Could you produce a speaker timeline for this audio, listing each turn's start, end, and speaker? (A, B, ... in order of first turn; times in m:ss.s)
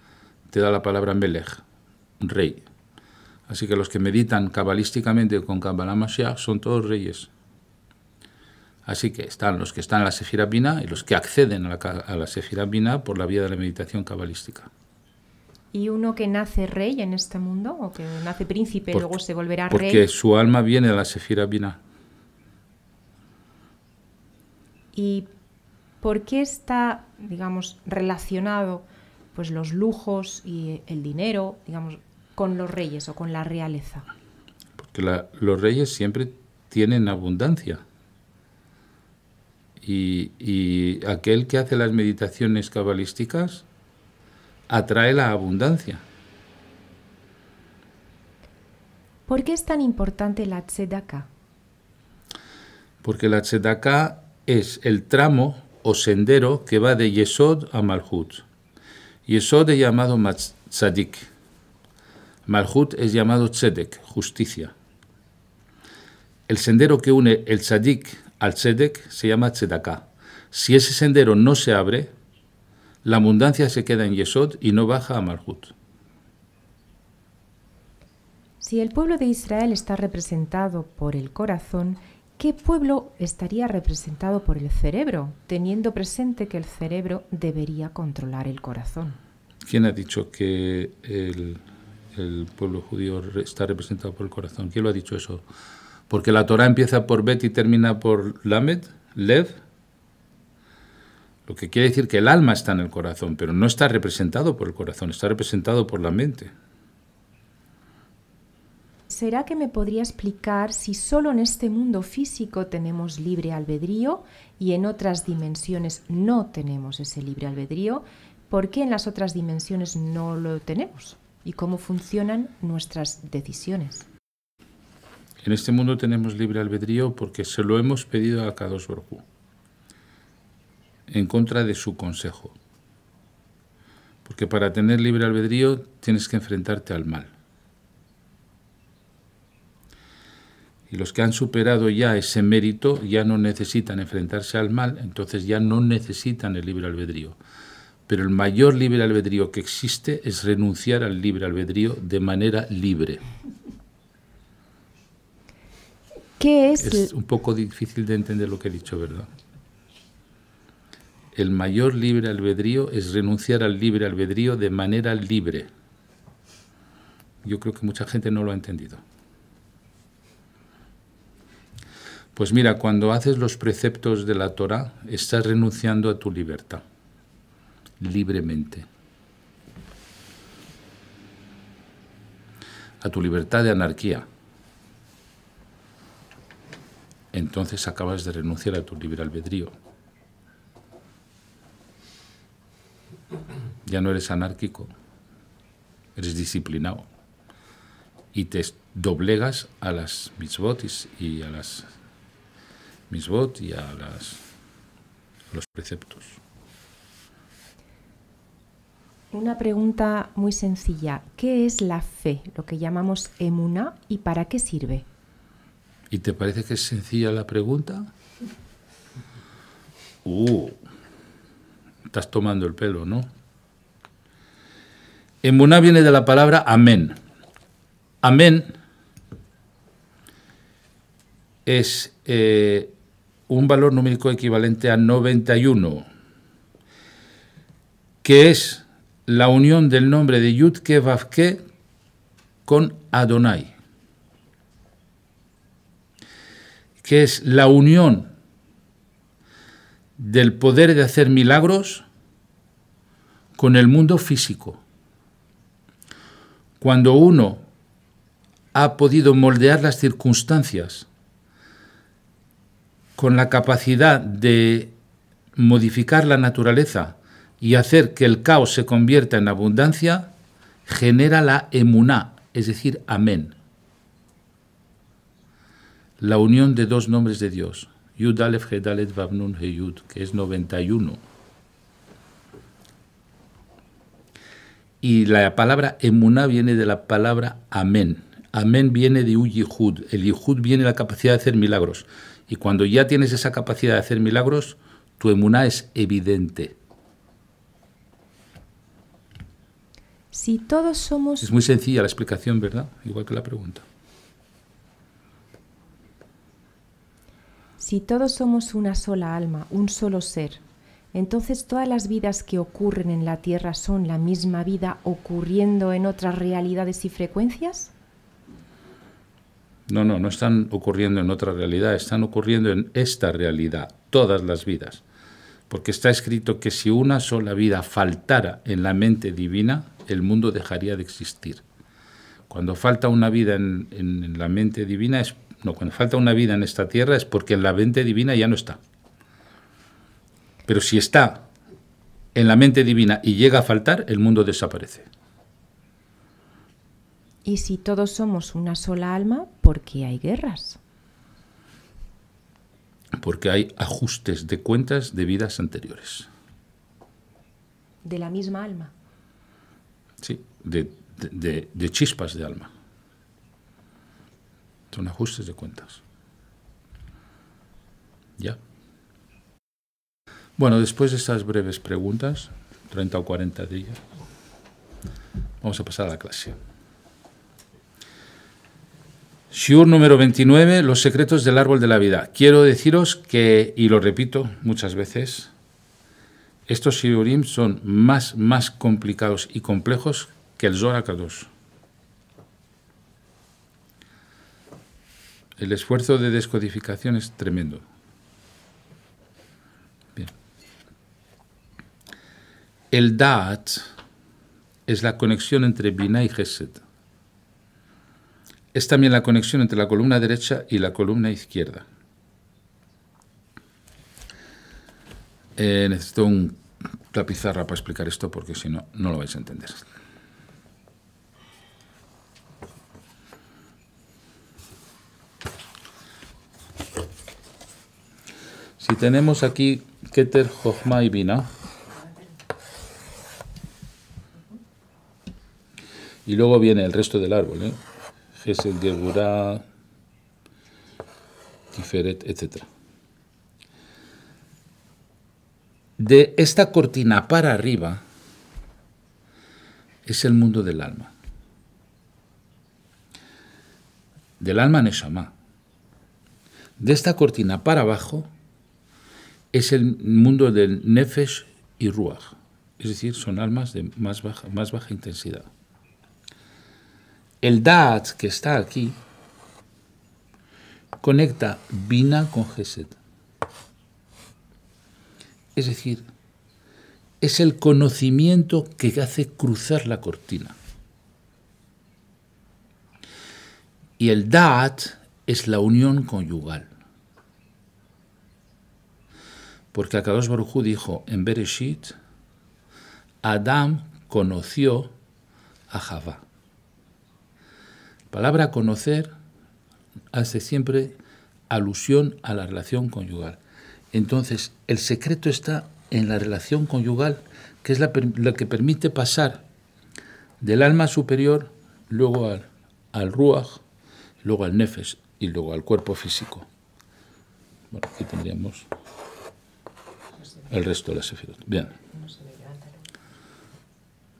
0:00.5-0:01.6 A
0:02.2-0:02.6 A
0:03.5-0:07.3 A
0:08.8-0:14.7 A
0:15.7-0:20.1 B
0:19.7-0:21.8 A
0:24.9-0:25.3 B
0:26.0-0:34.1 B
0:34.8-0:37.8 A
0:39.8-0:43.6 A
0:44.7-0:46.0 A
0:49.3-0:51.3 B
0:53.0-0:58.4 A
0:59.2-1:01.3 A
1:02.4-1:04.7 A
1:06.5-1:12.1 A
1:13.0-1:15.7 A
1:18.6-1:29.2 B
1:29.6-1:31.6 A
1:32.1-1:35.4 A
1:36.1-1:39.6 A
1:41.4-1:46.5 A
1:49.1-2:04.0 B
2:05.4-2:09.2 A
2:11.1-2:12.5 A
2:14.2-2:17.3 A
2:20.9-2:27.4 A
2:28.1-2:33.2 A
2:36.4-2:37.1 B
2:36.8-2:39.3 A
2:41.3-2:45.7 A
2:47.4-2:49.0 A
2:52.3-2:56.8 A
2:58.0-2:58.8 A
3:03.0-3:04.3 A
3:07.3-3:09.7 A
3:13.8-3:14.9 A
3:16.2-3:17.1 A
3:18.3-3:21.9 A
3:23.1-3:24.4 A
3:25.5-3:26.4 A
3:29.3-3:35.0 B
3:36.1-3:38.1 A
3:40.2-3:40.8 A
3:42.0-3:43.3 A
3:45.4-3:47.2 A
3:48.2-3:48.7 A
3:51.6-3:52.9 A
3:53.5-3:56.1 A
3:58.2-4:01.6 A
4:02.6-4:03.7 A
4:07.0-4:08.3 A
4:10.2-4:12.0 A
4:13.5-4:14.8 A
4:16.8-4:17.6 A
4:18.7-4:21.1 A
4:23.2-4:24.9 A
4:25.6-4:30.3 A
4:30.8-4:33.5 A
4:36.2-4:41.2 A
4:45.0-4:56.8 A
5:00.3-5:01.5 B
5:01.4-5:03.8 A
5:07.8-5:10.6 B
5:11.1-5:17.9 B
5:19.9-5:25.0 A
5:25.7-5:31.6 A
5:32.5-5:38.8 A
5:40.6-5:41.5 A
5:42.3-5:45.1 A
5:47.4-5:50.8 B
5:53.2-5:56.3 A
5:58.0-5:58.9 B
6:00.2-6:02.7 A
6:04.9-6:06.0 A
6:10.6-6:14.0 A
6:15.6-6:16.6 A
6:19.5-6:25.5 A
6:26.7-6:31.5 A
6:35.6-6:37.8 A
6:42.9-6:43.9 A
6:44.9-6:46.8 A
6:48.7-6:51.8 A
6:55.6-6:59.8 A
7:08.8-7:11.5 A
7:16.2-7:17.8 A
7:18.4-7:19.6 A
7:21.7-7:22.7 A
7:26.0-7:28.0 A
7:30.0-7:31.1 A
7:34.4-7:35.3 A
7:36.8-7:38.3 A
7:39.5-7:45.5 A
7:47.4-7:49.0 A
7:51.0-7:53.0 A
7:55.5-7:56.0 A
7:57.2-8:00.6 A
8:04.0-8:06.7 A
8:09.7-8:11.9 A
8:13.2-8:14.9 A
8:15.7-8:16.2 A
8:18.1-8:19.1 A
8:20.1-8:20.9 A
8:21.5-8:23.4 A
8:23.9-8:29.4 A
8:30.4-8:33.6 A
8:34.2-8:36.5 A
8:37.7-8:38.7 A
8:40.5-8:41.8 A
8:42.2-8:42.5 B